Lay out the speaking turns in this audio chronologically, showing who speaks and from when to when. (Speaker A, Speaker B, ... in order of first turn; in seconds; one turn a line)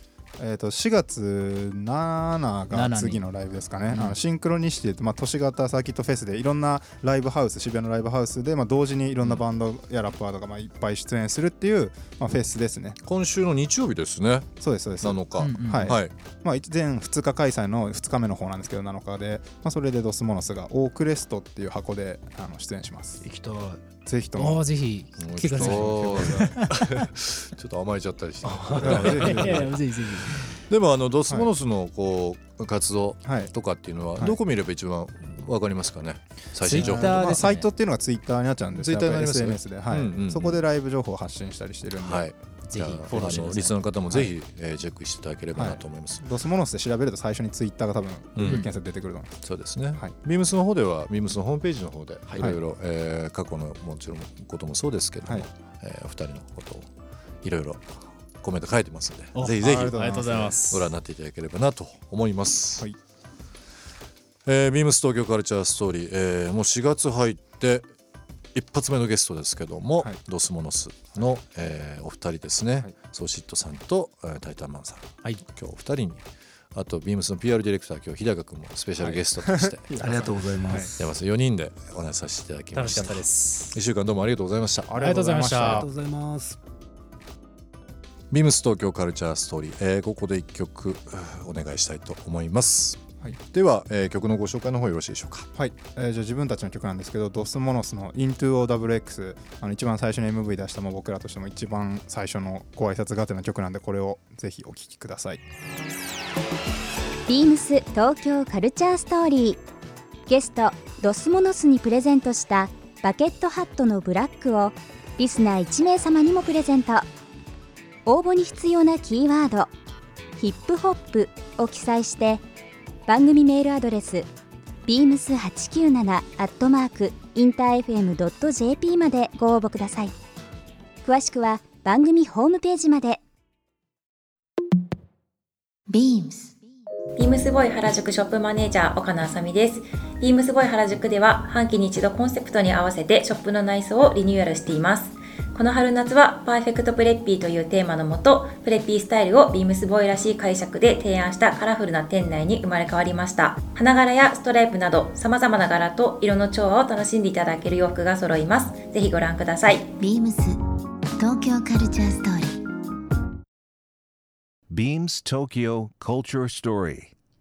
Speaker A: 0.4-13.0
Speaker B: 2.7-3.3
Speaker B: 3.9-4.2
Speaker C: 13.0-16.1
Speaker A: 14.6-23.2
Speaker B: 15.4-16.0
Speaker D: 23.2-23.8
Speaker A: 24.0-24.6
Speaker B: 24.3-27.0
Speaker C: 25.2-37.4
Speaker A: 25.5-26.4
Speaker D: 28.4-29.3
Speaker B: 28.7-30.6
Speaker A: 28.8-29.7
Speaker A: 33.2-33.5
Speaker B: 36.6-37.7
Speaker A: 36.7-42.3
Speaker C: 38.7-40.6
Speaker C: 42.0-46.3
Speaker B: 42.7-43.9
Speaker A: 42.9-43.5
Speaker A: 44.1-44.3
Speaker A: 45.5-50.1
Speaker C: 48.4-48.8
Speaker B: 48.4-48.7
Speaker C: 49.4-56.9
Speaker A: 55.2-55.5
Speaker C: 57.4-60.0
Speaker B: 59.3-60.9
Speaker A: 59.5-60.6
Speaker C: 60.7-62.9
Speaker C: 64.4-67.9
Speaker C: 68.5-76.2
Speaker C: 76.7-80.0
Speaker A: 79.0-80.9
Speaker D: 80.0-81.2
Speaker C: 81.0-84.9
Speaker B: 82.7-83.8
Speaker A: 84.9-85.9
Speaker B: 85.0-85.9
Speaker D: 85.6-86.6
Speaker C: 88.3-95.5
Speaker A: 95.5-105.4
Speaker E: 107.3-109.6
Speaker E: 110.3-117.0
Speaker E: 118.0-119.7
Speaker E: 120.4-122.4
Speaker E: 123.0-124.3
Speaker E: 124.8-130.1
Speaker E: 131.0-133.2
Speaker F: 135.9-136.5
Speaker G: 137.2-159.8
Speaker F: 160.0-160.6
Speaker F: 161.2-162.6
Speaker H: 164.7-167.1